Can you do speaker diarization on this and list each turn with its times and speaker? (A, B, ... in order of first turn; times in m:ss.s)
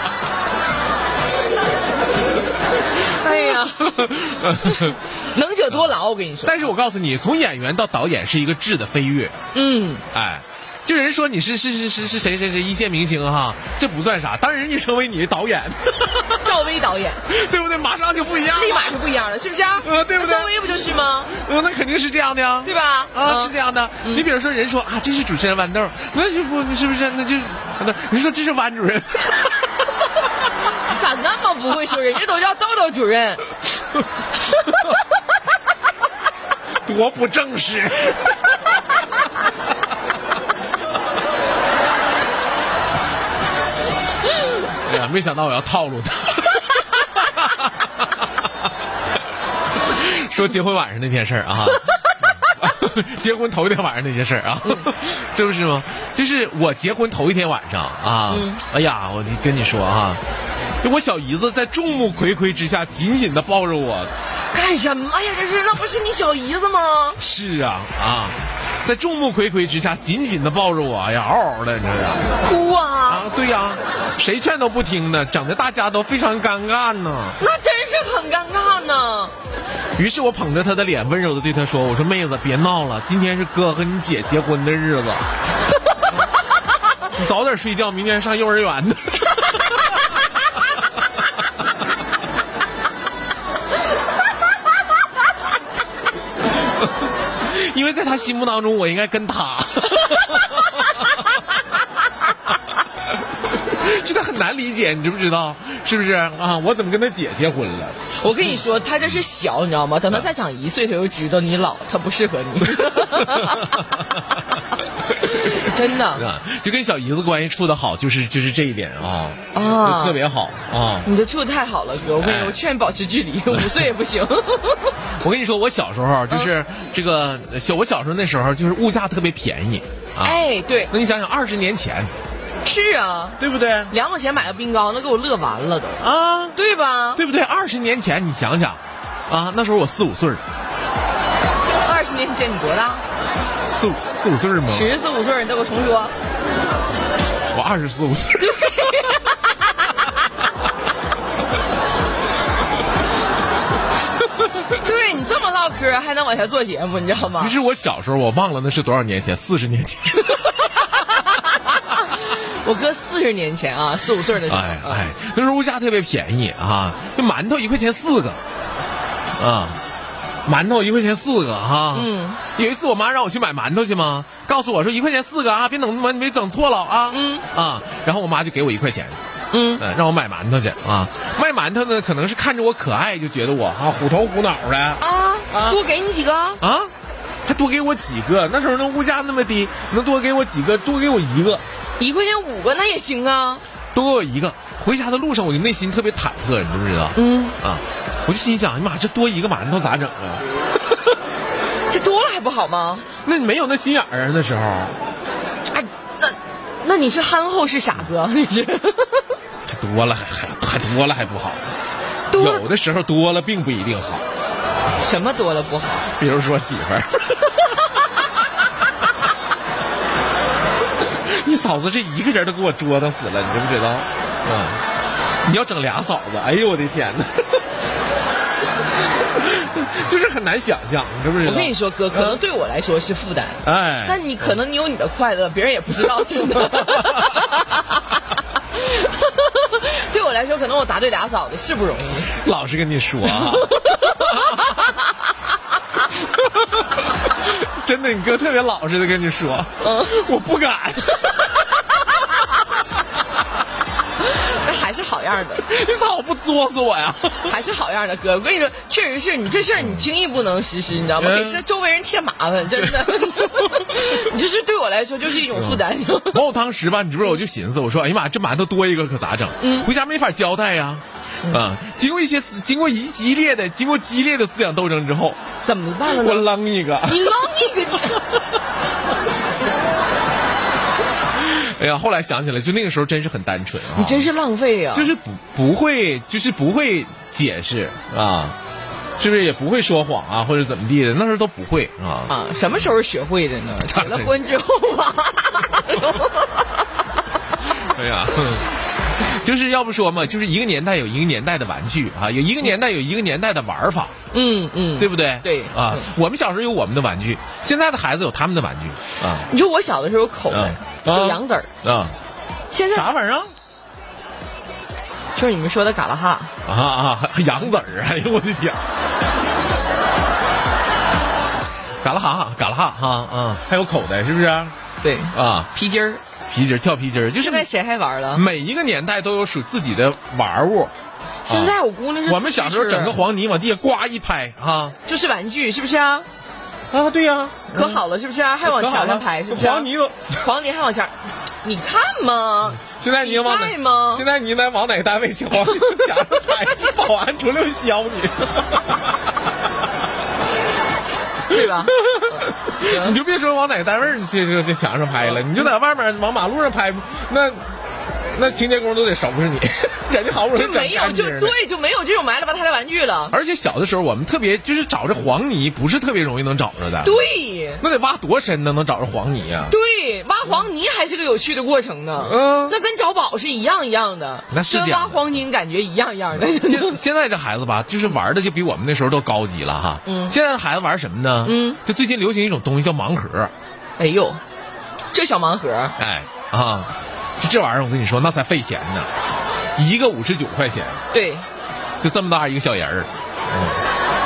0:03.0-0:06.7 A
0:03.8-0:05.0 B
0:06.4-0:09.4 B
0:09.5-0:10.0 A
0:10.1-0:16.6 B
0:16.4-0:17.2 A
0:17.3-0:19.0 B
0:18.5-0:21.3 A
0:19.8-0:20.5 B
0:21.3-0:29.8 B
0:22.6-0:24.3 A
0:30.9-0:33.5 A
0:34.5-0:34.8 A
0:36.8-0:38.4 B
0:44.8-0:47.9 B
0:49.9-1:00.2 B
0:58.3-0:58.6 A
1:00.8-1:04.1 B
1:04.5-1:07.2 A
1:07.2-1:12.3 B
1:12.4-1:13.3 A
1:13.1-1:17.4 B
1:17.4-1:19.3 A
1:20.0-1:25.3 B
1:27.2-1:30.1 B
1:37.4-1:40.9 B
1:43.6-1:48.0 B
1:48.2-1:54.0 A
1:52.7-1:54.0 B
1:55.2-1:56.2 A
1:55.3-2:01.1 B
1:59.5-2:00.2 A
2:01.0-2:05.0 A
2:02.2-2:02.6 B
2:03.5-2:03.9 B
2:05.2-2:12.1 B
2:10.2-2:10.9 A
2:12.6-2:13.4 A
2:13.4-2:13.9 B
2:13.9-2:16.0 A
2:16.0-2:16.6 B
2:16.6-2:17.2 A
2:17.2-2:20.4 B
2:21.8-2:23.0 A
2:23.7-2:24.9 B
2:24.7-2:26.1 A
2:27.5-2:28.8 B
2:28.4-2:29.5 A
2:34.7-2:37.5 A
2:37.3-2:40.6 B
2:40.2-2:45.0 A
2:44.5-2:48.4 B
2:49.4-2:49.8 B
2:50.4-2:59.2 B
2:51.9-2:52.4 A
2:57.1-2:57.4 A
2:59.5-2:59.8 A
2:59.8-3:05.8 B
3:05.0-3:06.6 A
3:06.6-3:06.9 B
3:07.5-3:11.6 B
3:12.0-3:13.6 A
3:13.9-3:20.4 B
3:17.2-3:17.6 A
3:21.9-3:23.0 A
3:23.2-3:25.0 B
3:25.7-3:29.3 A
3:29.7-3:31.6 B
3:32.3-3:32.7 A
3:32.3-3:34.2 B
3:35.0-3:36.1 A
3:36.1-3:37.7 B
3:41.2-3:44.8 B
3:45.4-3:47.7 B
3:49.4-3:52.4 B
3:51.4-3:58.0 A
3:53.6-3:54.6 B
3:56.7-3:57.3 B
3:58.6-4:02.4 A
4:02.3-4:04.8 B
4:03.2-4:05.1 A
4:06.4-4:06.8 B
4:07.4-4:11.6 B
4:09.8-4:10.2 A
4:14.3-4:15.7 A
4:15.6-4:17.6 B
4:17.5-4:26.4 A
4:19.8-4:20.1 B
4:21.2-4:21.6 B
4:22.8-4:23.9 B
4:25.5-4:35.4 B
4:29.6-4:29.9 A
4:35.6-4:36.5 A
4:36.1-4:37.4 B
4:37.0-4:38.3 A
4:41.4-4:44.3 B
4:43.9-4:45.1 A
4:44.9-4:48.6 B
4:49.2-4:52.3 B
4:52.3-4:56.9 A
4:53.8-4:54.4 B
4:57.8-5:04.1 B
5:04.3-5:06.1 A
5:05.0-5:09.5 B
5:09.5-5:11.7 A
5:10.5-5:12.2 B
5:12.7-5:13.1 A
5:12.9-5:13.5 B
5:15.4-5:16.5 A
5:16.6-5:18.8 B
5:22.0-5:24.8 B
5:25.0-5:26.2 A
5:25.3-5:25.7 B
5:26.5-5:27.7 B
5:27.4-5:28.4 A
5:28.3-5:30.9 B
5:31.5-5:33.2 A
5:31.5-5:35.0 B
5:35.0-5:36.3 A
5:36.9-5:38.0 B
5:37.7-5:44.2 A
5:38.6-5:40.4 B
5:42.7-5:49.0 B
5:51.5-5:52.0 A
5:51.8-5:57.6 B
5:52.8-5:53.2 A
5:58.3-6:01.6 B
6:00.5-6:03.4 A
6:03.3-6:09.8 B
6:07.0-6:07.8 A
6:09.7-6:17.0 A
6:12.2-6:12.8 B
6:14.5-6:15.4 B
6:16.3-6:23.5 B
6:20.0-6:20.4 A
6:21.4-6:21.8 A
6:24.0-6:24.4 A
6:25.1-6:26.0 A
6:26.0-6:29.1 B
6:29.8-6:31.0 B
6:31.1-6:31.5 A
6:32.0-6:33.8 B